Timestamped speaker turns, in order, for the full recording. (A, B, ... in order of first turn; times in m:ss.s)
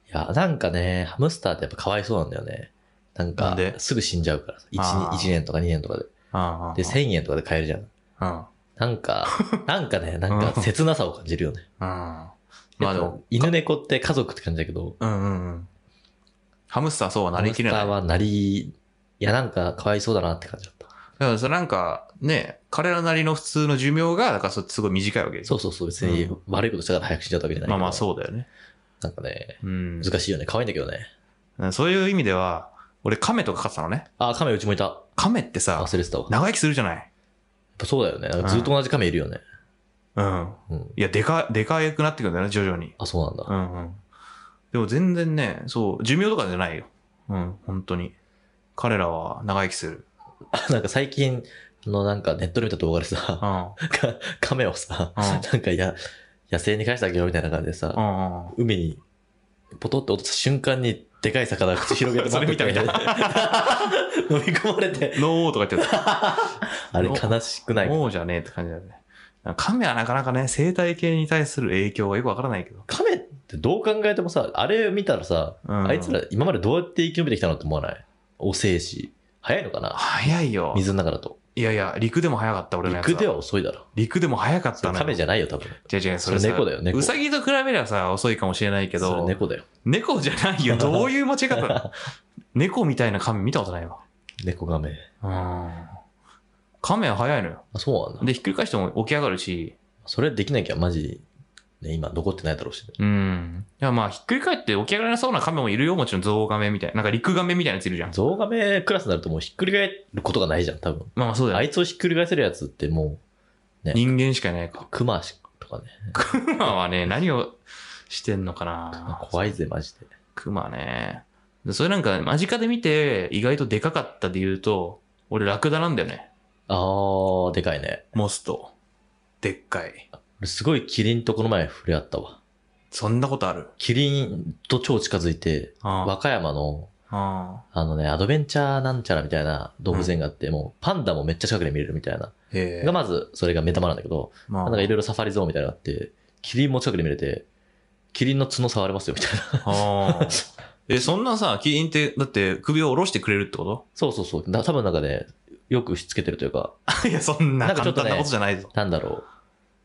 0:00.1-0:06.1 A
0:03.4-0:03.8 B
0:04.8-0:05.4 B
0:06.3-0:07.0 B
0:06.8-0:07.9 A
0:08.2-0:08.5 B
0:08.8-0:11.6 A
0:09.3-0:09.6 B
0:10.3-0:10.7 B
0:11.8-0:13.5 B
0:12.8-0:15.0 A
0:15.0-0:15.7 B
0:16.7-0:18.0 B
0:17.4-0:20.9 A
0:21.2-0:26.4 B
0:25.5-0:28.1 A
0:27.6-0:28.5 B
0:29.0-0:31.1 A
0:29.6-0:30.1 B
0:31.6-0:34.1 B
0:34.2-0:35.1 A
0:35.2-0:37.1 B
0:35.8-0:36.3 A
0:37.8-0:39.4 A
0:38.4-0:38.7 B
0:40.2-0:44.0 B
0:40.7-0:41.0 A
0:43.0-0:43.5 A
0:44.7-0:48.1 B
0:48.8-0:50.0 B
0:50.5-0:56.0 A
0:53.4-0:53.8 B
0:55.2-0:55.5 B
0:56.5-0:59.0 A
0:57.9-0:58.6 B
0:59.8-1:05.3 A
1:01.8-1:03.9 B
1:05.1-1:06.2 B
1:05.8-1:08.0 A
1:07.0-1:12.8 B
1:12.9-1:21.4 A
1:15.6-1:16.2 B
1:19.9-1:20.8 B
1:21.6-1:23.4 B
1:22.8-1:23.9 A
1:24.0-1:25.2 B
1:24.8-1:27.2 A
1:25.9-1:31.9 B
1:29.0-1:29.6 A
1:30.7-1:31.9 A
1:32.6-1:34.0 B
1:34.4-1:35.1 A
1:35.2-1:36.0 B
1:36.8-1:37.6 B
1:37.7-1:38.3 A
1:38.2-1:39.8 B
1:40.0-1:41.2 A
1:41.8-1:43.0 A
1:43.0-1:48.2 B
1:48.1-1:53.2 A
1:51.2-1:51.7 B
1:53.8-1:54.1 A
1:53.9-1:54.9 B
1:54.8-1:56.2 A
1:56.1-1:59.6 B
1:59.0-2:00.1 A
2:00.4-2:06.3 B
2:06.7-2:08.1 A
2:08.1-2:08.7 B
2:09.4-2:10.1 B
2:10.4-2:12.4 A
2:12.9-2:13.7 B
2:13.8-2:16.9 A
2:15.8-2:16.1 B
2:17.1-2:17.6 B
2:17.7-2:27.5 A
2:22.5-2:23.0 B
2:24.5-2:24.9 B
2:28.1-2:31.1 A
2:29.6-2:33.8 B
2:34.0-2:36.8 A
2:36.9-2:38.7 B
2:37.6-2:39.3 A